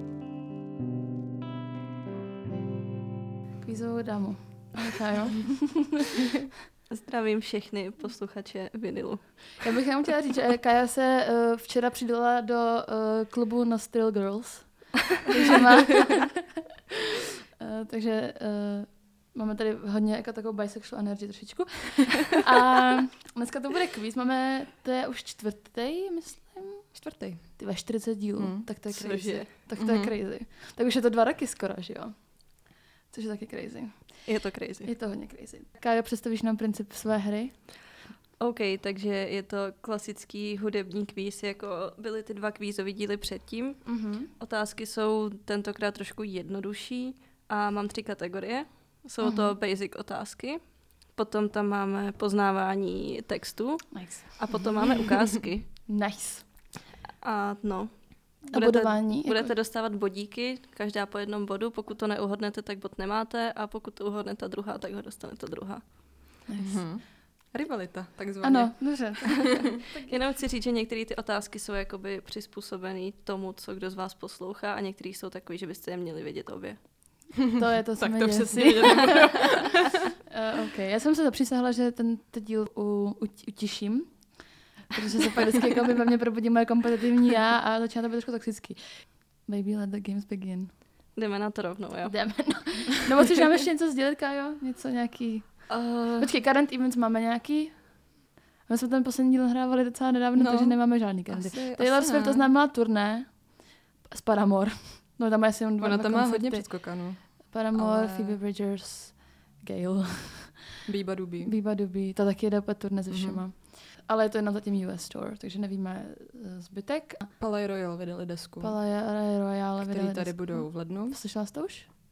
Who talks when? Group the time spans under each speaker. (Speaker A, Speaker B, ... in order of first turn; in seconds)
Speaker A: 3.6-6.0, 9.6-16.5, 17.6-37.6, 43.8-44.3, 49.2-49.5, 53.9-54.7, 55.8-56.7, 58.5-59.5, 66.5-66.8, 68.4-70.2, 77.5-79.7, 80.2-90.7, 92.0-110.7, 111.4-117.3, 118.6-121.9
Speaker B: 6.9-9.6, 28.9-29.5, 34.2-34.9, 38.4-55.7, 57.2-65.9, 70.1-76.8, 91.1-92.7, 95.7-96.3
Speaker C: 26.9-27.7, 28.4-28.7, 29.8-30.1, 66.6-69.3, 77.6-79.8, 100.3-102.5, 105.8-108.4, 110.9-111.5, 113.1-113.4, 117.4-118.8, 119.8-121.2